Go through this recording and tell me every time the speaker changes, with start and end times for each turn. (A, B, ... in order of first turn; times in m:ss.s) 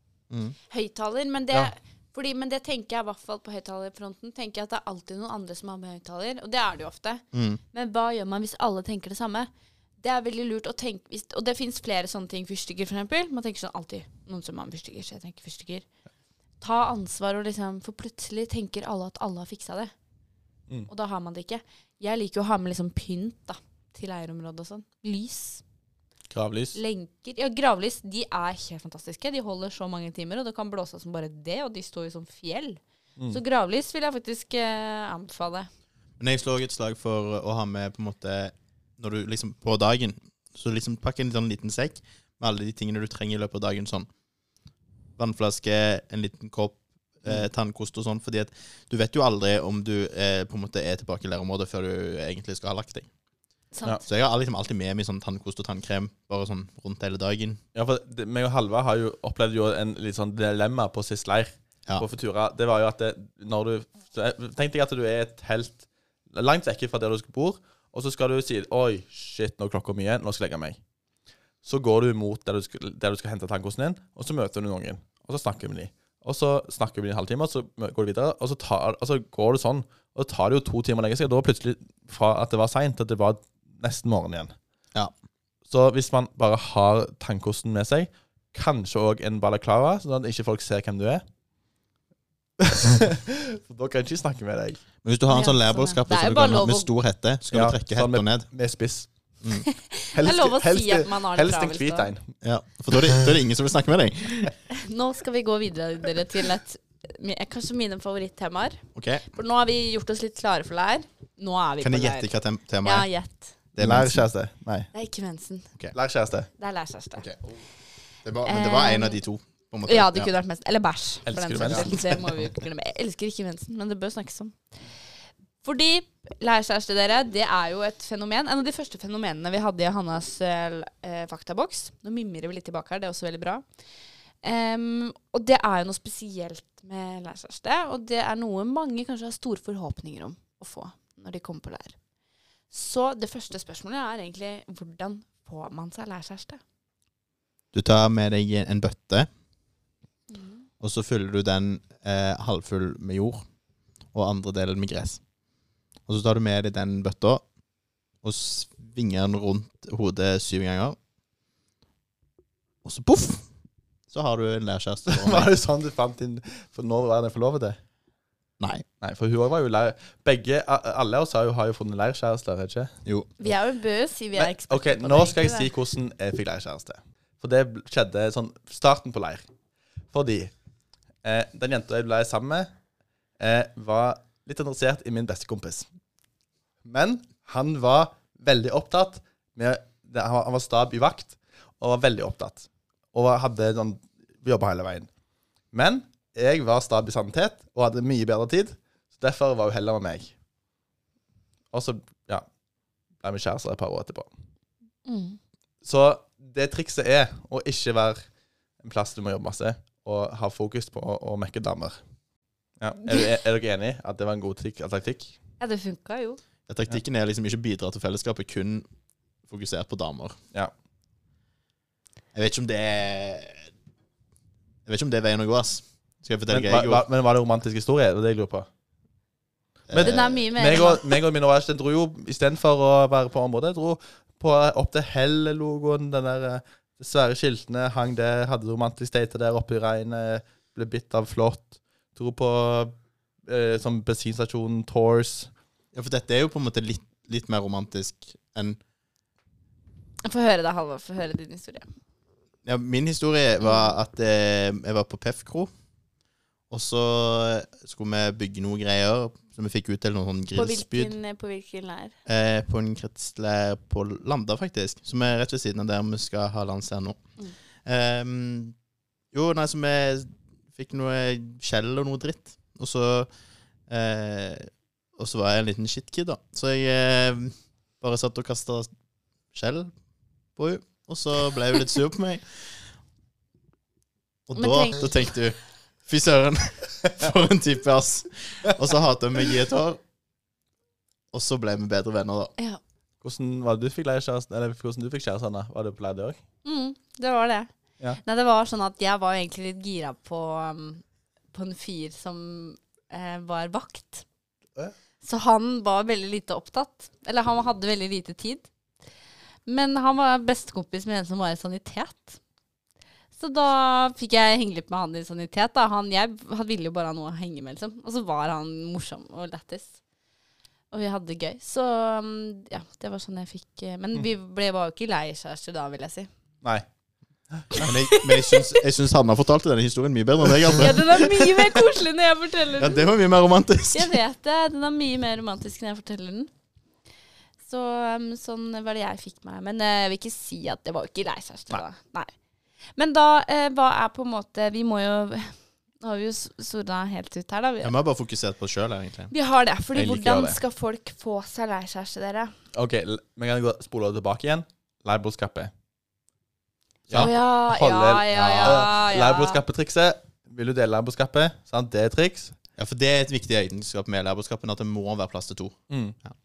0:00.3-0:00.6 A
0:00.7-0:15.8 B
0:07.3-0:07.6 A
0:16.6-0:19.9 B
0:20.9-0:25.6 B
0:26.3-0:26.8 C
0:26.7-0:35.7 B
0:36.2-0:44.1 A
0:45.2-0:53.1 A
0:53.7-0:54.0 B
0:54.0-0:57.6 A
0:57.7-1:10.8 C
1:11.6-1:24.6 C
1:25.7-1:31.2 C
1:32.7-1:34.8 C
1:35.0-1:38.5 A
1:35.3-1:36.9 B
1:37.5-1:39.4 C
1:39.6-1:42.1 B
1:40.1-1:42.3 C
1:42.4-1:44.6 A
1:44.8-1:53.6 B
1:48.9-1:49.2 A
1:51.8-1:53.1 A
1:53.7-1:54.3 A
1:53.8-1:54.9 C
1:54.9-1:55.7 B
1:55.9-1:56.5 C
1:56.6-1:57.2 B
1:57.2-1:57.6 A
1:58.2-2:00.3 A
1:58.4-1:59.2 B
1:59.8-2:04.8 B
2:01.2-2:01.9 C
2:01.6-2:02.1 A
2:05.6-2:13.6 B
2:14.4-2:22.0 B
2:22.7-2:26.6 B
2:27.7-2:29.3 A
2:30.3-2:30.6 B
2:30.8-2:33.4 A
2:34.1-2:35.2 A
2:36.0-2:37.4 A
2:38.2-2:41.0 A
2:42.8-2:43.5 A
2:44.1-2:45.5 A
2:45.0-2:47.8 C
2:48.6-2:48.8 A
2:49.0-2:52.9 C
2:53.0-2:53.3 A
2:53.4-2:55.7 B
2:54.4-2:59.5 C
3:00.1-3:00.5 C
3:01.2-3:02.7 C
3:03.4-3:05.9 C
3:06.8-3:15.1 C
3:15.7-3:20.3 C
3:21.7-3:22.5 C
3:23.2-3:24.3 C
3:25.0-3:25.4 B
3:25.8-3:32.0 C
3:32.8-3:35.4 C
3:35.6-3:36.4 B
3:36.7-3:38.8 A
3:39.5-3:40.4 A
3:42.3-3:43.7 A
3:44.8-3:47.0 A
3:46.5-3:48.7 C
3:49.9-3:50.4 A
3:49.9-4:05.5 C
3:50.0-3:51.1 B
4:05.9-4:08.8 A
4:10.2-4:11.9 B
4:12.6-4:15.7 A
4:13.6-4:13.9 B
4:16.7-4:21.1 A
4:20.5-4:22.1 B
4:22.2-4:28.8 A
4:29.3-4:33.3 A
4:33.9-4:38.9 A
4:39.5-4:39.9 A
4:40.6-4:42.8 A
4:44.5-4:50.0 A
4:44.6-4:45.2 B
4:51.3-4:52.5 A
4:53.2-4:56.4 C
4:56.6-5:04.2 B
5:05.2-5:08.7 B
5:09.6-5:12.4 B
5:13.3-5:20.0 B
5:20.9-5:26.3 B
5:27.5-5:27.8 C
5:27.8-5:31.7 A
5:27.8-5:28.7 B
5:30.7-5:33.1 B
5:32.8-5:34.2 A
5:33.9-5:36.5 B
5:37.6-5:42.3 B
5:43.0-5:47.9 B
5:47.8-5:49.3 A
5:49.3-5:52.5 B
5:49.9-5:50.6 C
5:52.7-5:55.7 C
5:57.1-6:02.6 C
5:57.1-5:59.6 B
6:02.8-6:06.3 A
6:05.9-6:06.2 C